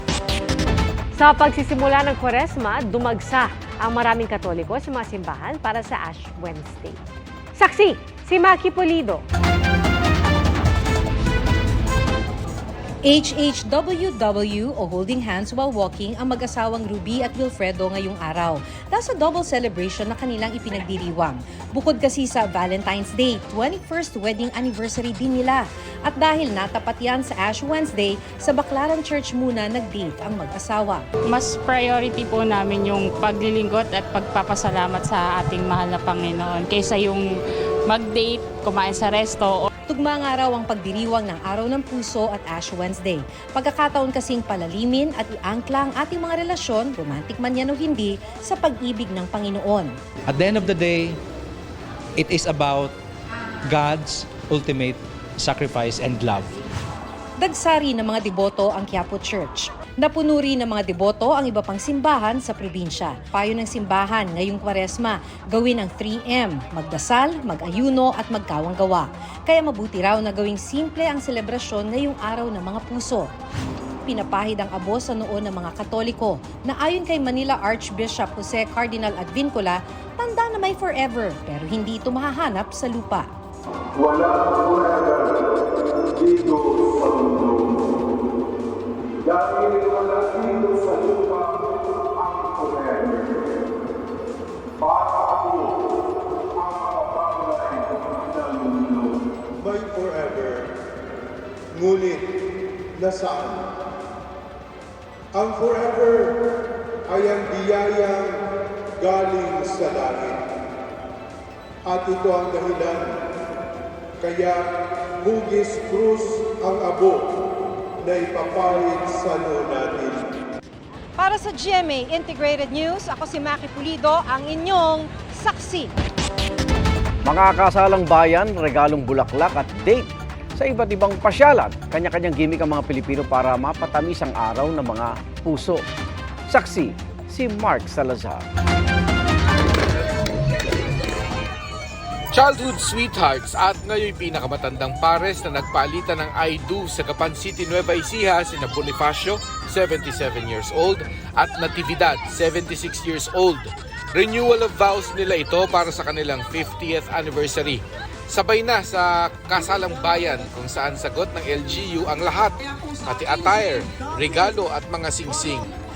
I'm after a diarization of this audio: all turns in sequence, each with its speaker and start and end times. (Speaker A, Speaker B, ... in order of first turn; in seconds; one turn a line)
Speaker A: 1.1-7.0
Speaker A: 7.5-9.2
Speaker B: 13.1-31.0
Speaker C: 31.3-37.3
Speaker C: 37.9-39.7
Speaker B: 39.9-50.0
Speaker B: 57.4-73.3
Speaker B: 74.1-83.3
Speaker D: 84.0-85.3
Speaker D: 86.2-87.8
Speaker D: 89.2-91.5
Speaker D: 92.2-93.3
Speaker D: 94.8-95.8
Speaker D: 96.6-100.7
Speaker D: 101.7-102.3
Speaker D: 103.0-103.7
Speaker D: 105.3-106.4
Speaker D: 107.1-108.4
Speaker D: 109.0-110.4
Speaker D: 111.8-113.2
Speaker D: 114.2-114.6
Speaker D: 115.2-117.2
Speaker D: 118.0-120.2
Speaker E: 121.2-125.9
Speaker F: 127.3-135.8
Speaker F: 136.5-138.4
Speaker G: 142.3-165.7